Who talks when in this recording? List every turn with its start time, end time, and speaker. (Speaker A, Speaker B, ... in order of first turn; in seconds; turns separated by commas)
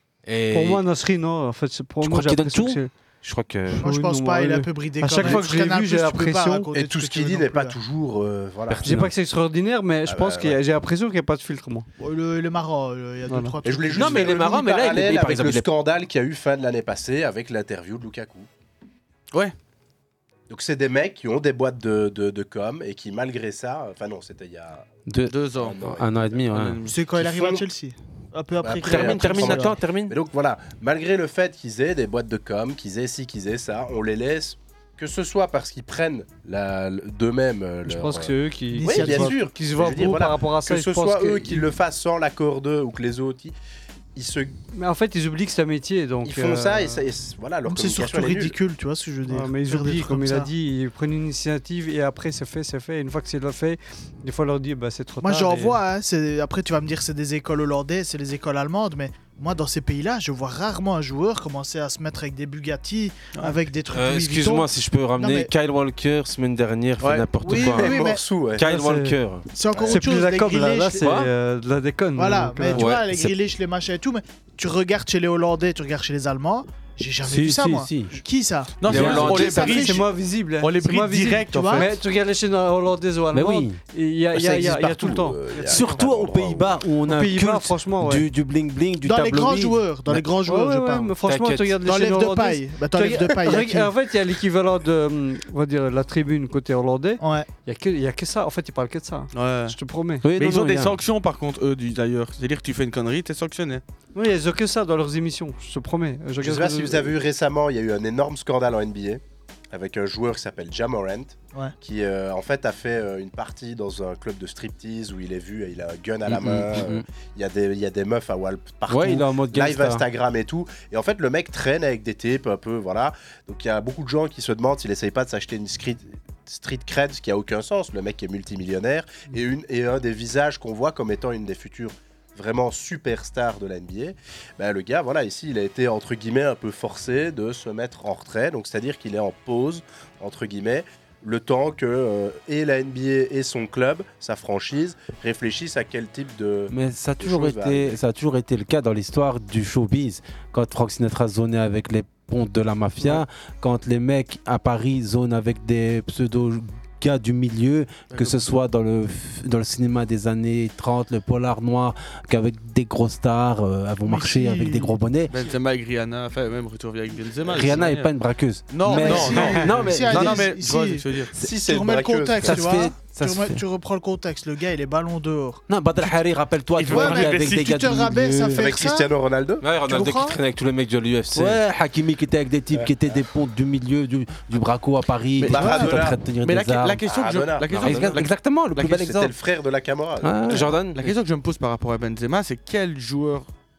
Speaker A: 0.3-0.8, Speaker B: 0.5-2.9, Speaker A: 2.0-3.8, Speaker B: 3.7-6.7, Speaker C: 3.8-7.8, Speaker D: 6.7-8.9, Speaker E: 8.8-9.1, Speaker B: 8.8-11.9, Speaker D: 10.1-10.6, Speaker C: 12.0-14.4, Speaker B: 13.3-13.6, Speaker D: 13.7-18.5, Speaker A: 13.9-15.7, Speaker D: 20.5-24.9, Speaker F: 25.3-25.8, Speaker D: 25.6-26.4, Speaker E: 26.0-26.6, Speaker F: 26.5-26.9, Speaker C: 26.9-29.8, Speaker D: 27.2-27.7, Speaker D: 28.6-43.5, Speaker A: 28.8-30.1, Speaker B: 37.9-41.7, Speaker C: 38.8-39.4, Speaker D: 44.1-44.5, Speaker B: 44.8-47.0, Speaker D: 46.2-48.6, Speaker C: 47.7-50.5, Speaker B: 49.3-55.8, Speaker C: 55.2-65.5, Speaker E: 64.0-67.8, Speaker A: 67.0-67.7, Speaker D: 67.5-68.6, Speaker C: 67.5-68.2, Speaker B: 68.6-69.2, Speaker E: 68.6-69.4, Speaker C: 69.5-71.3, Speaker D: 69.7-70.0, Speaker B: 69.9-72.9, Speaker C: 72.2-80.0, Speaker A: 72.8-73.1, Speaker E: 77.3-78.1, Speaker F: 78.8-80.1, Speaker E: 78.8-79.7, Speaker B: 78.9-86.0, Speaker A: 79.1-79.5, Speaker F: 80.6-82.0, Speaker C: 81.5-81.9, Speaker E: 83.3-83.7, Speaker D: 84.3-86.8, Speaker E: 85.7-90.2, Speaker B: 87.0-88.3, Speaker C: 89.0-91.2, Speaker B: 90.4-100.2, Speaker E: 91.3-91.7, Speaker C: 91.8-93.9, Speaker C: 97.2-97.5, Speaker F: 99.3-99.8, Speaker E: 100.2-100.9, Speaker F: 100.4-103.8, Speaker B: 104.1-107.1, Speaker D: 106.4-148.0, Speaker E: 116.6-117.0, Speaker E: 118.9-120.0, Speaker E: 146.7-165.3, Speaker F: 158.1-158.4, Speaker C: 164.1-165.0, Speaker F: 165.3-168.1, Speaker E: 167.5-170.5, Speaker F: 168.7-171.3, Speaker C: 168.9-176.1, Speaker D: 171.3-172.9, Speaker E: 172.4-173.6, Speaker E: 175.8-178.7, Speaker F: 176.8-177.8, Speaker C: 176.9-179.1, Speaker A: 176.9-177.8, Speaker D: 178.5-179.6, Speaker A: 179.6-181.7, Speaker E: 179.7-180.2, Speaker C: 179.9-180.4, Speaker E: 181.3-187.0, Speaker D: 182.7-183.2, Speaker D: 185.4-186.2, Speaker F: 185.6-185.9, Speaker F: 186.4-188.9, Speaker D: 187.1-188.1, Speaker A: 187.7-189.3, Speaker E: 187.9-188.3, Speaker D: 188.9-190.7, Speaker A: 190.5-191.0, Speaker F: 191.0-193.5